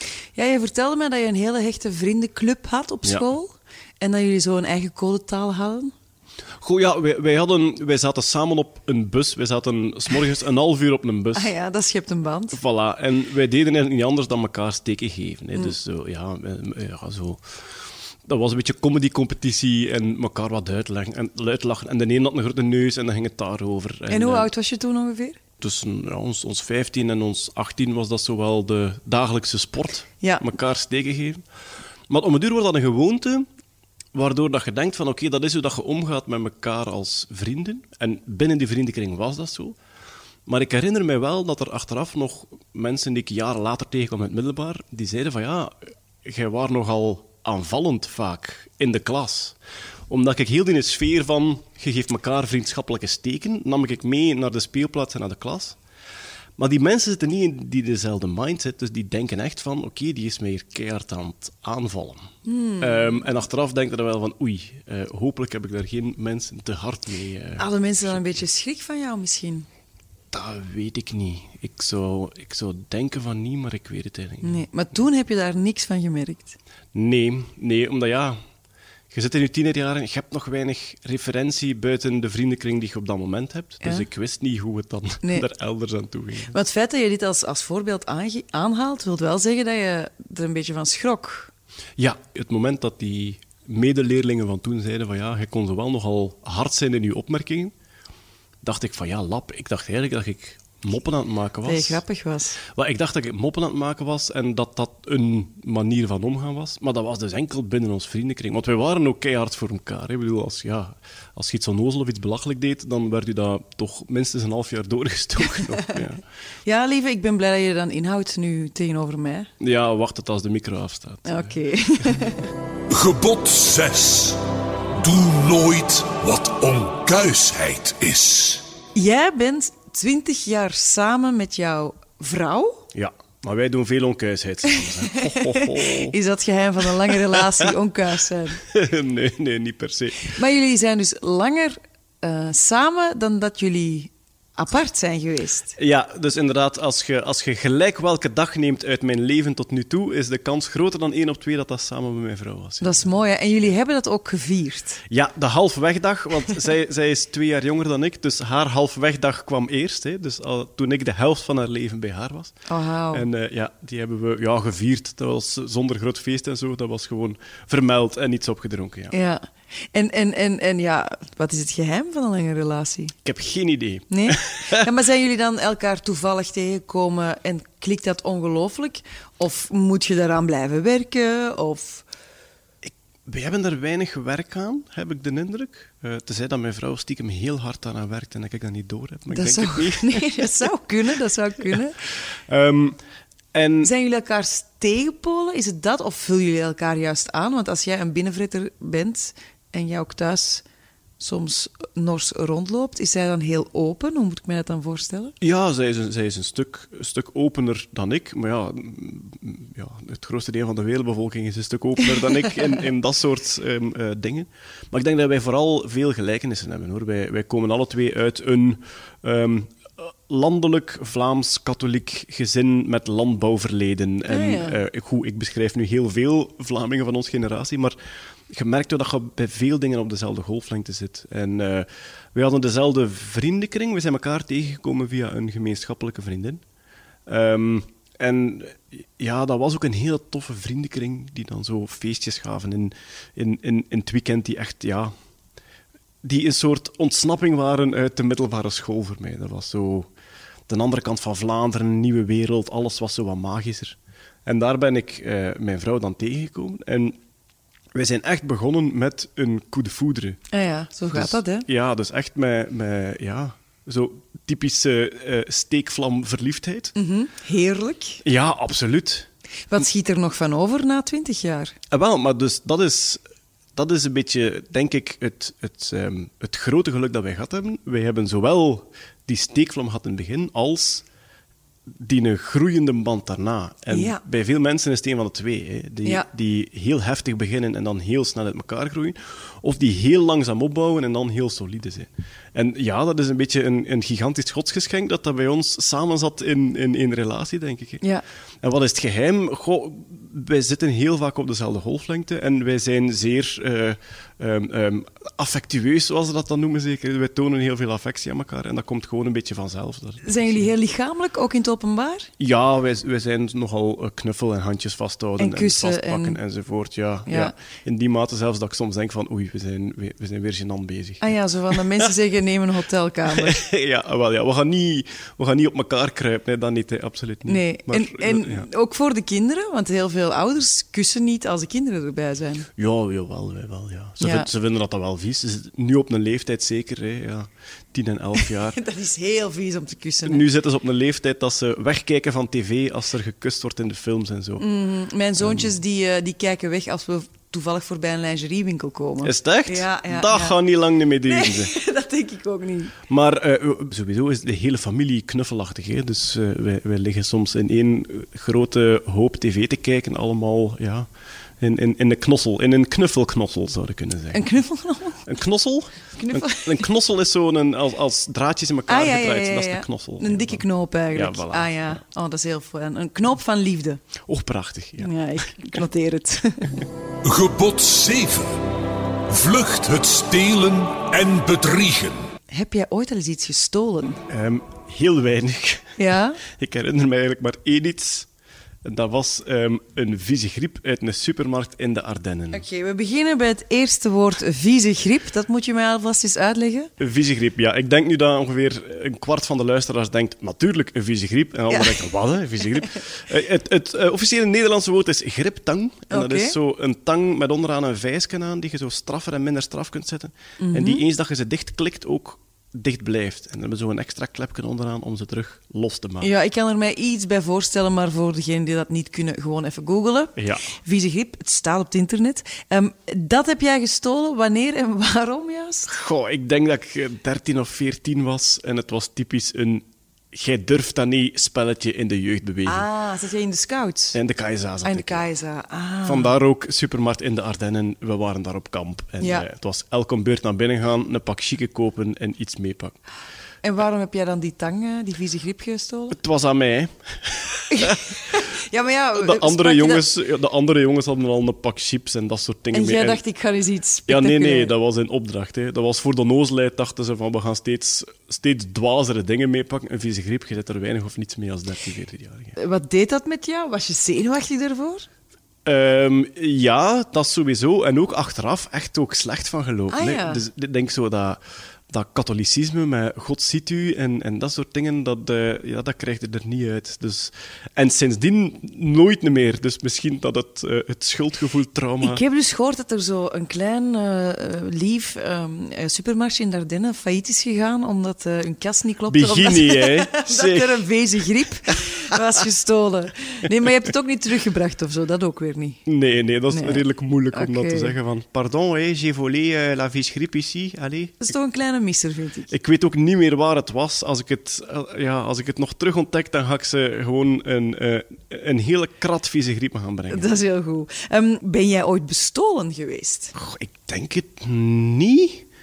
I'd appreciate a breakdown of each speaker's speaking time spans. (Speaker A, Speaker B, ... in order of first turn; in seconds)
Speaker A: 0.3-5.9, 11.3-12.6, 24.1-25.4, 30.2-30.5, 62.4-63.2, 67.6-69.7, 74.4-76.6, 86.5-91.5, 101.7-102.6, 115.5-115.9, 116.7-119.5, 121.2-122.5, 128.9-132.8, 134.7-138.6, 140.2-145.8, 152.8-155.0, 162.7-163.2, 169.1-173.2, 174.1-182.1, 189.3-192.0, 193.8-200.6, 201.2-205.3, 224.3-224.8, 260.5-261.6, 266.9-268.2, 269.7-271.8, 283.9-284.2, 310.2-312.3, 315.4-316.4, 317.3-317.5, 321.2-323.6, 327.4-332.7, 334.2-334.5, 338.4-340.5, 344.6-350.6, 351.2-352.9, 364.3-365.3, 366.1-366.9, 368.9-374.0, 375.0-376.9, 382.5-384.2, 386.0-386.4, 392.5-396.9, 401.7-402.0, 406.1-406.5, 410.6-411.0, 416.2-425.9, 432.6-434.2, 434.8-436.3, 439.2-439.4, 443.6-446.2, 447.7-450.0, 452.7-454.7, 462.6-465.1, 469.9-470.4, 482.0-495.8, 496.5-497.9, 501.2-502.5, 510.1-513.3
Speaker B: 6.6-11.5, 12.5-17.4, 18.2-24.5, 25.6-31.4, 32.1-33.5, 34.1-39.8, 40.5-49.6, 50.1-55.8, 56.6-62.3, 62.8-68.4, 70.3-74.6, 76.9-78.4, 79.1-86.5, 92.0-97.7, 98.6-102.0, 102.7-116.2, 119.6-121.5, 132.9-136.1, 137.1-137.7, 138.6-140.3, 145.8-153.1, 155.1-162.6, 163.1-169.1, 173.2-174.9, 182.8-190.5, 192.5-193.0, 193.5-193.9, 205.4-227.9, 228.5-236.6, 237.3-245.1, 246.2-250.1, 250.7-257.2, 257.9-260.4, 261.1-266.9, 268.2-269.3, 271.9-273.2, 273.8-281.0, 281.9-298.0, 298.6-310.6, 312.4-322.1, 323.3-328.7, 332.8-338.8, 340.2-344.6, 345.4-345.7, 349.2-351.7, 353.1-361.1, 361.6-364.5, 365.2-372.0, 374.2-375.7, 384.3-388.3, 388.8-392.6, 397.0-416.3, 420.4-420.6, 425.9-432.9, 434.1-435.2, 436.1-443.0, 446.1-448.4, 449.1-453.2, 454.1-462.6, 465.6-471.4, 471.9-482.2, 489.1-490.8, 495.9-501.3, 502.5-510.4, 513.3-515.5
Speaker C: 122.9-124.4, 125.0-128.6, 377.2-378.6, 379.3-382.3